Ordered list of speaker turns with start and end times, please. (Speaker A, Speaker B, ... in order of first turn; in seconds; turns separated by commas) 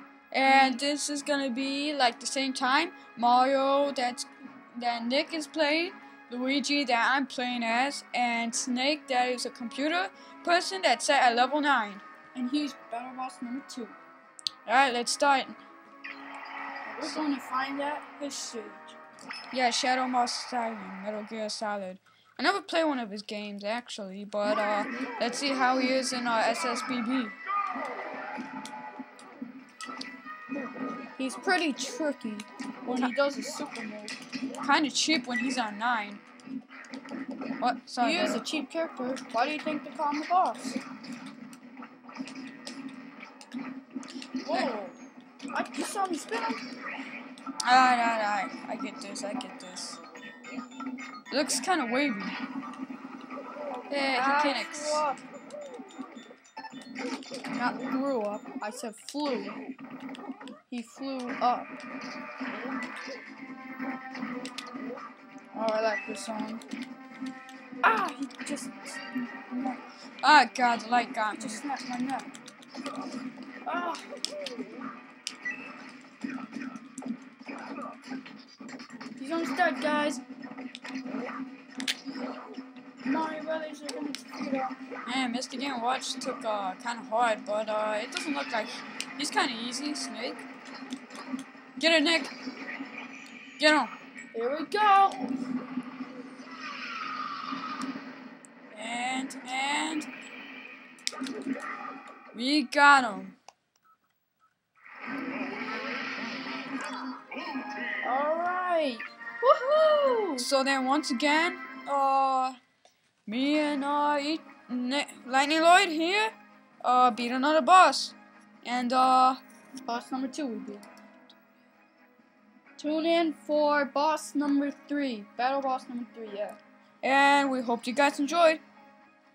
Speaker A: 0.3-12.0, Speaker B: 0.5-0.8, Speaker B: 12.3-14.0, Speaker A: 14.7-15.6, Speaker B: 16.9-18.9, Speaker A: 19.5-27.4, Speaker B: 31.2-34.1, Speaker A: 34.6-36.2, Speaker A: 37.6-38.4, Speaker B: 38.0-40.8, Speaker B: 44.4-45.0, Speaker B: 45.5-46.6, Speaker A: 47.6-50.0, Speaker A: 51.3-52.4, Speaker A: 53.9-55.0, Speaker B: 54.1-55.2, Speaker B: 57.5-59.6, Speaker B: 60.7-61.7, Speaker B: 65.5-66.6, Speaker B: 67.8-69.8, Speaker A: 70.2-71.6, Speaker B: 71.4-72.3, Speaker B: 73.6-74.0, Speaker B: 79.2-80.2, Speaker B: 83.0-84.8, Speaker A: 85.0-90.5, Speaker A: 91.8-92.3, Speaker A: 93.6-93.9, Speaker B: 94.3-95.3, Speaker A: 98.7-100.1, Speaker A: 102.3-103.3, Speaker B: 108.0-110.5, Speaker A: 110.4-112.6, Speaker A: 113.3-119.4, Speaker B: 119.8-120.8, Speaker B: 122.8-126.6, Speaker A: 127.0-128.6